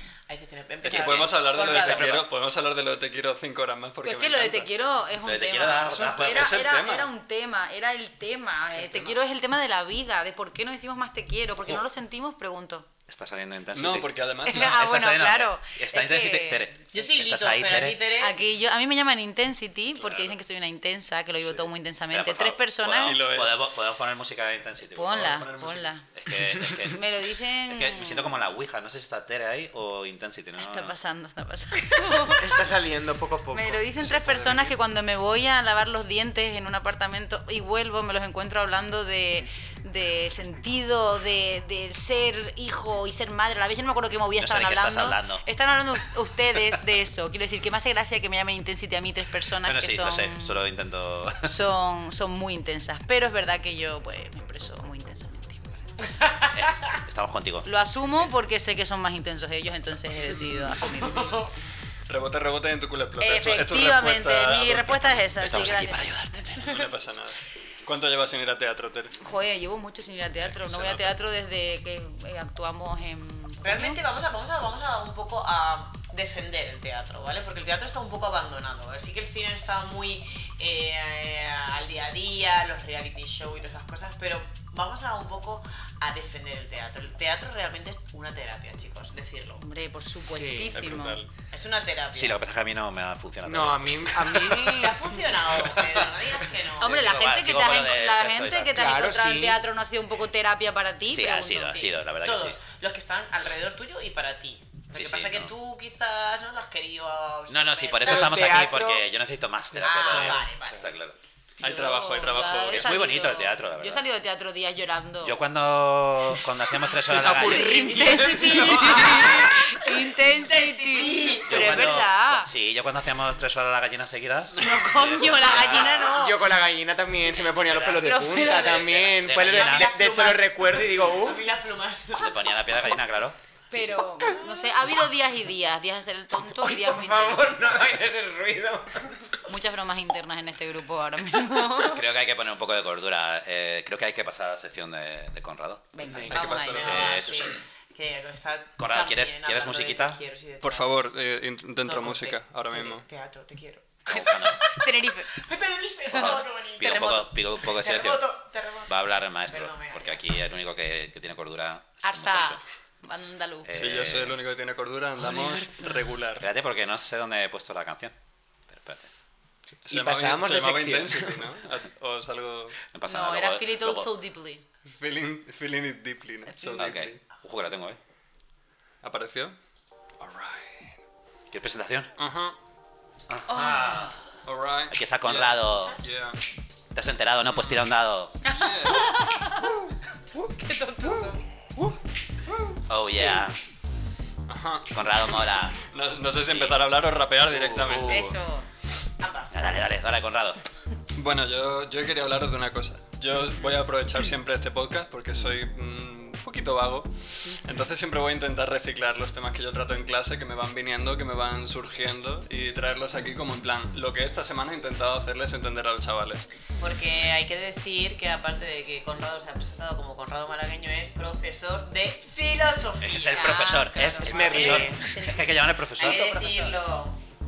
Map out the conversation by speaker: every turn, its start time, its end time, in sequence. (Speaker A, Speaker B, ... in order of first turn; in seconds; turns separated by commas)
Speaker A: 0.3-2.3, Speaker B: 0.8-4.7, Speaker C: 0.9-2.1, Speaker D: 1.6-1.9, Speaker D: 4.0-12.9, Speaker C: 5.2-6.6, Speaker B: 5.9-7.1, Speaker B: 8.7-9.2, Speaker C: 13.1-18.0, Speaker B: 13.7-14.8, Speaker D: 14.5-16.8, Speaker A: 16.9-18.4, Speaker D: 18.2-23.2, Speaker C: 20.0-20.3, Speaker C: 21.4-25.5, Speaker B: 23.0-23.7, Speaker D: 24.9-26.1, Speaker B: 25.2-25.9, Speaker C: 26.1-27.0, Speaker D: 26.8-28.3, Speaker C: 27.6-30.9, Speaker D: 30.6-32.5, Speaker E: 32.4-34.0, Speaker D: 33.5-50.6, Speaker B: 34.0-34.7, Speaker C: 44.4-45.5, Speaker C: 49.6-51.5, Speaker D: 51.4-55.8, Speaker A: 56.1-57.0, Speaker C: 56.5-57.7, Speaker D: 57.6-61.4, Speaker A: 60.7-61.5, Speaker B: 62.1-65.3, Speaker D: 63.2-66.8, Speaker C: 65.4-66.8, Speaker B: 66.6-69.2, Speaker D: 69.2-74.0, Speaker B: 70.5-71.2, Speaker A: 73.6-89.6, Speaker D: 89.6-91.2, Speaker E: 90.2-90.8, Speaker B: 90.7-91.3, Speaker A: 91.5-92.4, Speaker C: 92.1-94.7, Speaker E: 93.4-95.2, Speaker A: 94.7-97.0, Speaker C: 95.6-96.1, Speaker D: 96.8-101.8, Speaker C: 96.8-98.9, Speaker E: 98.7-99.6, Speaker C: 101.1-102.6, Speaker A: 101.6-108.8, Speaker C: 104.9-105.5, Speaker C: 107.5-111.2, Speaker E: 108.0-109.1, Speaker E: 109.7-110.5, Speaker A: 109.8-111.0, Speaker B: 111.6-112.9, Speaker D: 111.6-115.4, Speaker C: 112.7-114.0, Speaker C: 115.2-117.8, Speaker E: 117.0-119.5, Speaker D: 117.1-122.5, Speaker A: 117.9-121.9, Speaker C: 121.5-126.2, Speaker D: 124.6-126.4, Speaker E: 126.1-131.5, Speaker D: 128.0-128.9, Speaker C: 128.4-129.9, Speaker A: 128.5-132.6, Speaker C: 132.1-133.4, Speaker D: 133.7-137.7, Speaker E: 136.4-139.4, Speaker D: 139.5-142.0, Speaker C: 141.8-145.9, Speaker D: 145.9-147.2, Speaker E: 146.0-146.7, Speaker B: 146.1-147.1, Speaker A: 146.8-151.1, Speaker C: 146.8-147.6, Speaker C: 148.8-150.2, Speaker B: 150.6-153.1, Speaker A: 151.8-154.8, Speaker D: 154.1-155.3, Speaker C: 154.1-154.6, Speaker A: 155.3-160.2, Speaker D: 156.1-157.3, Speaker C: 156.2-158.3, Speaker C: 158.9-162.6, Speaker D: 162.0-163.7, Speaker C: 163.7-164.4, Speaker B: 163.7-166.5, Speaker E: 165.2-166.0, Speaker C: 166.4-168.2, Speaker C: 168.7-169.1, Speaker B: 169.8-172.8, Speaker E: 169.9-171.5, Speaker C: 172.9-174.1, Speaker D: 173.1-174.6, Speaker B: 175.0-177.2, Speaker C: 176.7-178.0, Speaker B: 179.0-179.6, Speaker B: 180.2-181.0, Speaker C: 181.5-182.1, Speaker B: 182.2-182.6, Speaker C: 183.3-184.2, Speaker D: 183.5-184.2, Speaker B: 184.4-186.4, Speaker C: 184.9-186.0, Speaker A: 185.7-186.0, Speaker C: 186.9-188.4, Speaker D: 188.4-189.8, Speaker B: 188.5-189.2, Speaker D: 190.4-191.4, Speaker E: 191.0-192.0, Speaker C: 192.9-193.6, Speaker B: 194.5-198.4, Speaker C: 194.9-195.8, Speaker D: 198.0-198.7, Speaker A: 199.2-199.8, Speaker C: 199.5-200.6, Speaker B: 201.1-216.4, Speaker A: 216.8-223.7, Speaker C: 223.0-226.7, Speaker D: 223.3-226.8, Speaker E: 224.2-225.0, Speaker A: 224.2-225.1, Speaker A: 226.0-227.2